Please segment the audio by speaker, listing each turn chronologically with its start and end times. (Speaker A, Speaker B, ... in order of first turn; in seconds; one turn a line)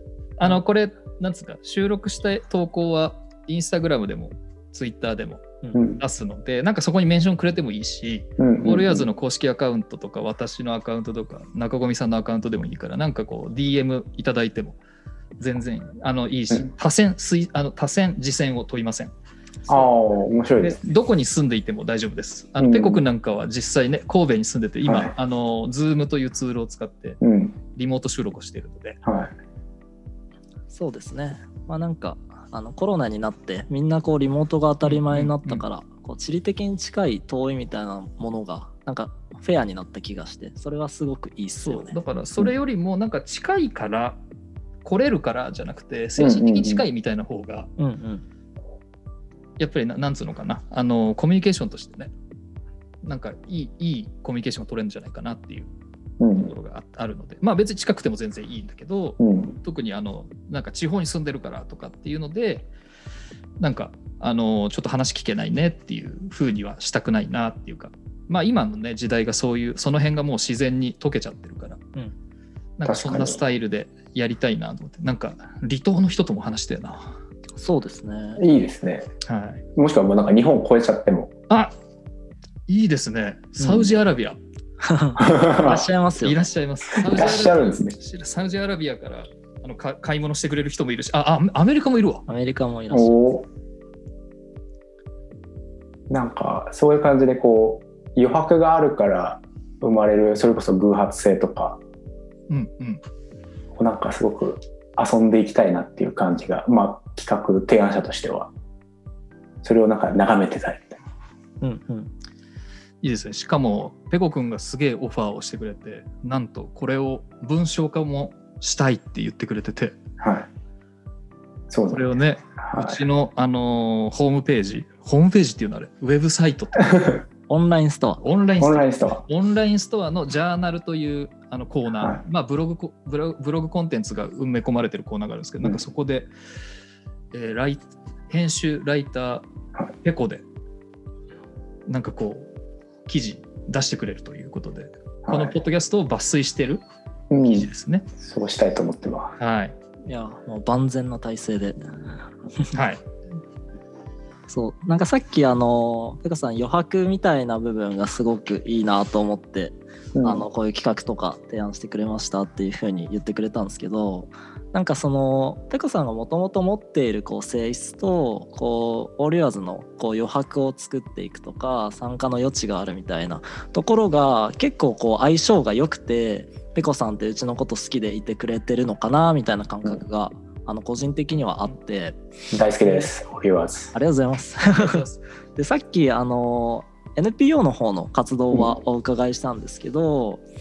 Speaker A: 0.4-14.8
Speaker B: 5.7-6.0
Speaker B: 8.4-9.1
Speaker A: 15.4-19.1
Speaker B: 19.7-20.8
Speaker A: 20.6-27.2
Speaker B: 22.6-23.0
Speaker B: 24.8-25.1
Speaker B: 27.2-27.5
Speaker A: 27.7-29.0
Speaker B: 29.0-29.3
Speaker C: 30.7-42.0
Speaker A: 34.8-35.6
Speaker A: 41.6-44.2
Speaker A: 44.8-47.7
Speaker B: 46.2-46.8
Speaker C: 47.8-48.2
Speaker A: 49.6-52.1
Speaker A: 53.0-55.7
Speaker B: 56.2-56.5
Speaker A: 56.4-62.7
Speaker B: 59.2-59.6
Speaker A: 63.6-71.8
Speaker A: 72.8-77.1
Speaker B: 72.8-73.4
Speaker C: 77.6-78.4
Speaker B: 78.4-79.1
Speaker A: 79.2-79.6
Speaker B: 79.7-81.3
Speaker A: 82.7-84.4
Speaker C: 83.6-83.9
Speaker C: 84.8-86.5
Speaker B: 85.2-85.9
Speaker A: 86.2-92.2
Speaker B: 86.9-88.0
Speaker C: 92.3-93.2
Speaker B: 92.9-93.5
Speaker B: 96.1-101.8
Speaker A: 102.5-103.0
Speaker B: 103.8-108.5
Speaker B: 109.6-111.0
Speaker C: 111.6-112.1
Speaker A: 113.0-120.0
Speaker B: 120.2-120.5
Speaker B: 121.7-123.0
Speaker A: 121.9-127.2
Speaker B: 126.8-127.2
Speaker C: 127.5-128.2
Speaker A: 128.2-136.3
Speaker B: 128.6-129.2
Speaker A: 137.3-139.4
Speaker A: 140.0-140.4
Speaker A: 141.9-142.5
Speaker A: 143.1-146.8
Speaker B: 145.2-145.6
Speaker B: 147.3-147.7
Speaker A: 147.4-148.1
Speaker B: 148.2-149.3
Speaker A: 149.4-149.8
Speaker C: 150.1-152.7
Speaker A: 152.7-153.0
Speaker C: 154.5-182.2
Speaker B: 160.1-160.4
Speaker B: 182.5-183.9
Speaker C: 183.9-190.4
Speaker A: 184.7-185.2